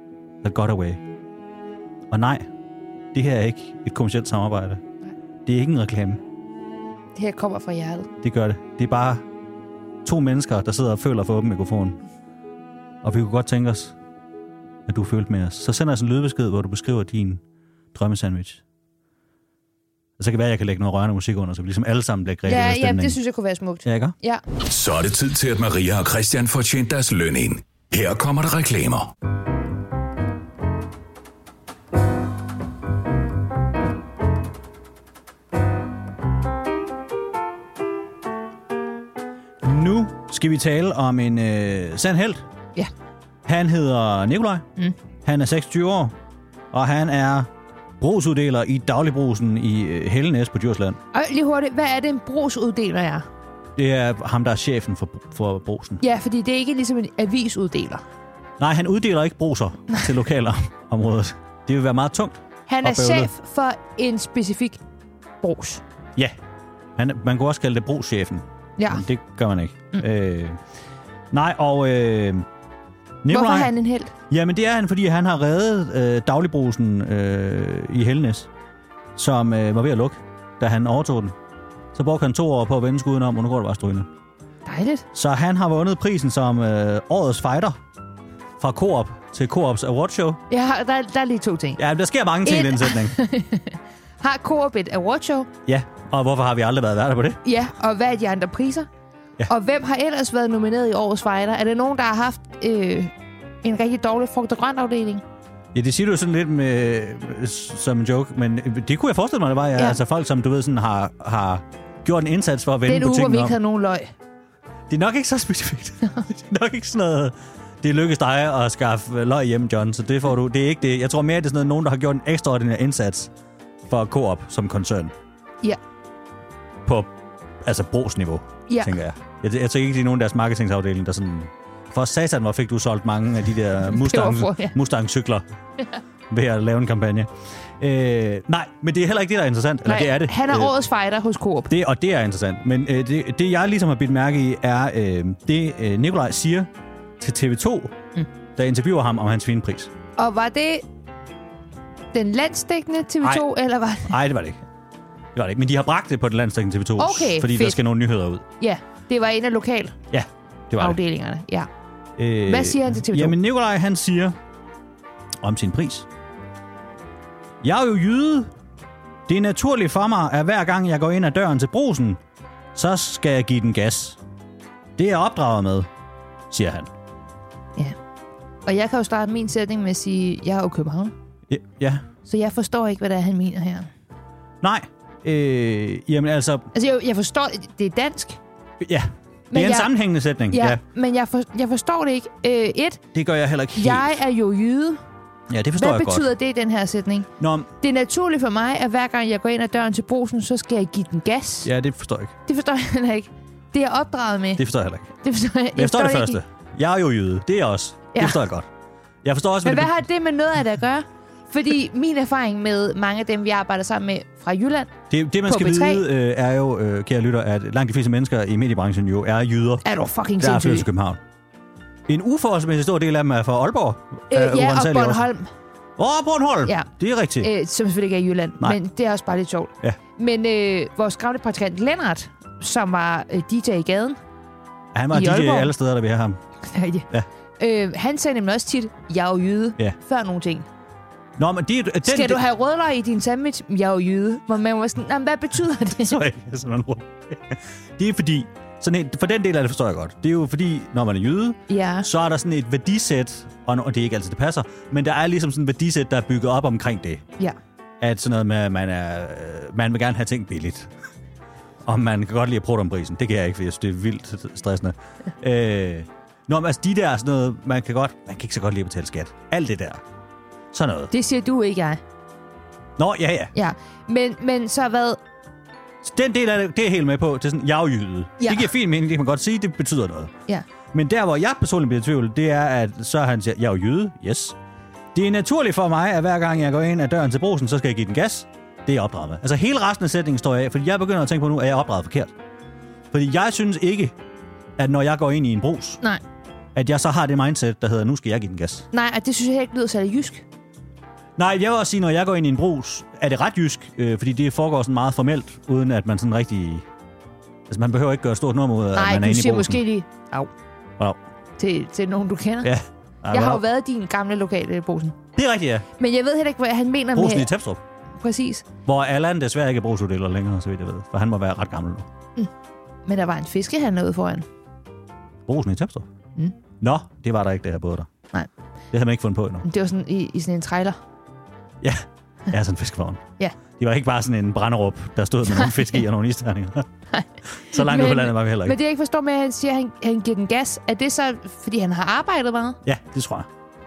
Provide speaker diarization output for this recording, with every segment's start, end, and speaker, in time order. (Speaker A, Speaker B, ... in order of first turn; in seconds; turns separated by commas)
Speaker A: 0.4-1.0, Speaker A: 2.1-2.5, Speaker A: 3.1-4.8, Speaker A: 5.5-6.2, Speaker B: 7.1-8.1, Speaker A: 8.2-9.2, Speaker A: 10.1-12.0, Speaker A: 13.0-13.9, Speaker A: 14.9-17.4, Speaker A: 17.9-18.6, Speaker A: 20.2-23.2, Speaker B: 22.5-24.4, Speaker A: 23.9-24.1, Speaker C: 24.6-29.1, Speaker A: 39.6-42.5, Speaker A: 43.5-44.7, Speaker A: 45.2-46.1, Speaker A: 46.7-51.0, Speaker B: 51.1-53.3, Speaker A: 53.8-56.0, Speaker B: 56.0-58.0, Speaker A: 58.6-63.3, Speaker B: 62.7-64.8, Speaker B: 65.4-65.8, Speaker A: 67.0-70.6, Speaker B: 68.8-69.0, Speaker A: 71.3-72.5, Speaker A: 73.2-73.7, Speaker B: 73.3-74.1, Speaker A: 74.3-78.5, Speaker A: 79.2-81.4, Speaker A: 81.9-84.1, Speaker B: 84.7-85.1, Speaker A: 85.1-87.8, Speaker A: 88.6-90.4, Speaker B: 90.5-91.8, Speaker A: 91.8-93.2, Speaker B: 92.4-95.5, Speaker A: 95.7-97.4, Speaker B: 97.4-98.9, Speaker B: 99.5-105.2, Speaker A: 105.7-113.6, Speaker B: 112.8-114.1, Speaker A: 114.9-123.3, Speaker A: 123.9-125.1, Speaker A: 126.8-135.4, Speaker B: 128.7-128.9, Speaker B: 133.9-134.8, Speaker A: 136.3-140.8, Speaker B: 139.9-141.7, Speaker A: 141.7-147.9, Speaker A: 148.6-149.9, Speaker B: 150.2-150.8, Speaker B: 152.1-154.2, Speaker A: 154.0-154.6, Speaker A: 155.3-158.4, Speaker B: 157.0-157.8, Speaker B: 158.6-160.0, Speaker A: 160.1-161.0, Speaker B: 160.8-161.7, Speaker A: 162.2-164.4, Speaker B: 162.4-163.4, Speaker A: 165.4-166.1, Speaker A: 167.6-168.5, Speaker A: 169.3-172.2, Speaker A: 172.8-174.2, Speaker A: 175.0-175.9, Speaker A: 176.5-176.9, Speaker B: 178.7-181.1, Speaker A: 181.5-182.1, Speaker B: 182.2-183.9, Speaker A: 184.6-186.7, Speaker B: 186.7-188.4, Speaker A: 188.8-190.8, Speaker B: 189.5-189.9, Speaker B: 190.5-193.0, Speaker A: 193.1-194.1, Speaker B: 193.8-195.0, Speaker A: 195.5-196.3, Speaker B: 195.8-201.7, Speaker A: 197.4-197.7, Speaker A: 201.6-202.3, Speaker B: 202.5-204.6, Speaker A: 204.6-205.1, Speaker B: 205.2-206.4, Speaker A: 205.8-208.7, Speaker B: 208.1-208.4, Speaker A: 209.2-209.9, Speaker B: 209.6-214.9, Speaker A: 215.1-219.8, Speaker B: 215.5-216.0, Speaker B: 219.8-220.9, Speaker A: 220.4-221.2, Speaker A: 222.1-225.3, Speaker B: 224.3-225.5, Speaker A: 226.0-227.5, Speaker B: 227.4-234.2, Speaker A: 234.9-236.4, Speaker B: 235.1-235.7, Speaker B: 236.6-237.1, Speaker B: 237.6-240.7, Speaker A: 241.4-242.4, Speaker B: 242.1-246.2, Speaker A: 245.8-257.3, Speaker B: 251.7-252.1, Speaker A: 258.0-260.9, Speaker A: 261.9-270.0, Speaker A: 270.7-271.1, Speaker B: 271.1-272.0, Speaker A: 273.0-273.5, Speaker B: 273.5-275.2, Speaker A: 276.0-280.3, Speaker B: 278.4-278.7, Speaker A: 280.9-284.6, Speaker A: 285.1-292.4, Speaker A: 293.1-294.2, Speaker A: 294.8-296.0, Speaker A: 296.8-298.9, Speaker B: 298.9-300.4, Speaker A: 301.4-306.9, Speaker A: 307.7-309.8, Speaker B: 308.9-310.5, Speaker B: 311.6-312.7, Speaker A: 312.6-313.6, Speaker B: 313.3-315.2, Speaker A: 315.4-315.9, Speaker B: 316.0-317.5, Speaker A: 317.1-317.8, Speaker B: 318.2-318.7, Speaker A: 318.9-322.1, Speaker B: 323.1-324.5, Speaker A: 325.5-326.1, Speaker A: 326.8-328.1, Speaker A: 328.9-329.6, Speaker B: 329.6-331.0, Speaker A: 331.8-333.2, Speaker A: 333.8-336.9, Speaker B: 335.5-336.0, Speaker B: 337.1-342.8, Speaker A: 337.6-338.8, Speaker A: 342.8-343.5